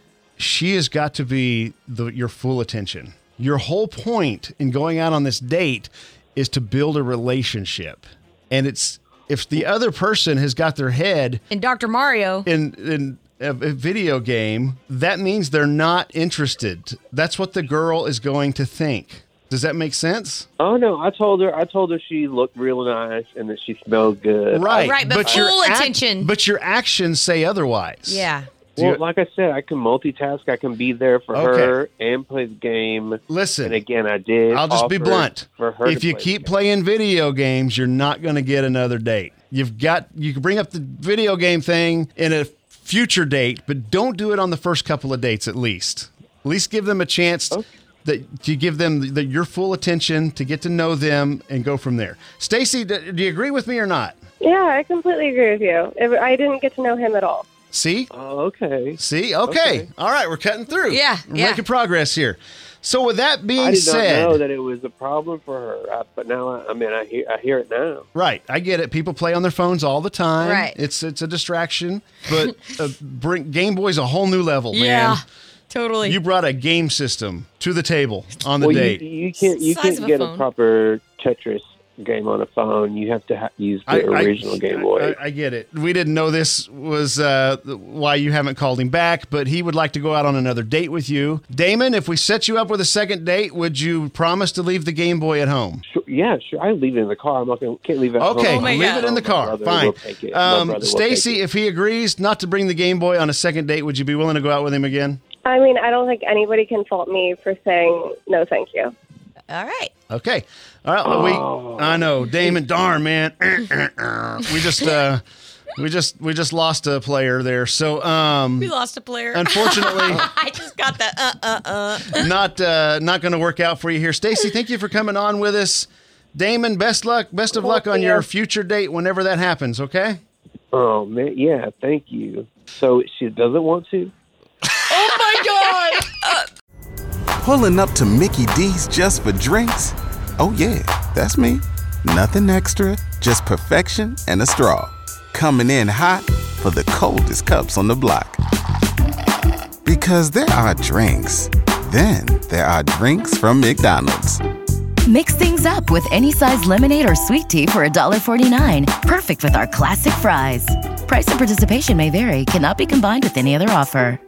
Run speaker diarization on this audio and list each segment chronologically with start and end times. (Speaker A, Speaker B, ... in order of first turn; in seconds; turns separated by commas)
Speaker A: 0.4-11.4, Speaker B: 11.5-12.5, Speaker A: 12.4-20.4, Speaker C: 20.6-25.5, Speaker A: 24.5-29.0, Speaker B: 24.8-26.3, Speaker B: 28.1-28.5, Speaker C: 28.8-36.5, Speaker A: 31.3-31.7, Speaker A: 33.3-33.8, Speaker A: 34.5-54.1, Speaker D: 54.4-57.4, Speaker A: 57.7-58.1, Speaker C: 58.1-59.9, Speaker A: 59.0-64.4, Speaker B: 60.9-61.6, Speaker C: 63.6-68.1, Speaker A: 68.1-75.2, Speaker B: 70.4-70.7, Speaker B: 74.7-76.2, Speaker A: 76.0-79.0, Speaker C: 78.6-85.2, Speaker B: 79.4-80.5, Speaker A: 83.9-95.8, Speaker C: 95.9-101.4, Speaker A: 98.2-105.2, Speaker B: 98.4-99.0, Speaker D: 105.4-108.9, Speaker B: 109.5-109.9, Speaker A: 110.1-115.2, Speaker C: 111.0-112.0, Speaker A: 115.8-118.7, Speaker B: 118.6-122.3, Speaker A: 119.3-120.3, Speaker A: 122.1-130.2, Speaker D: 127.7-128.2, Speaker C: 130.7-134.1, Speaker B: 134.9-136.4, Speaker E: 137.4-148.4, Speaker E: 149.8-154.4, Speaker F: 155.1-164.2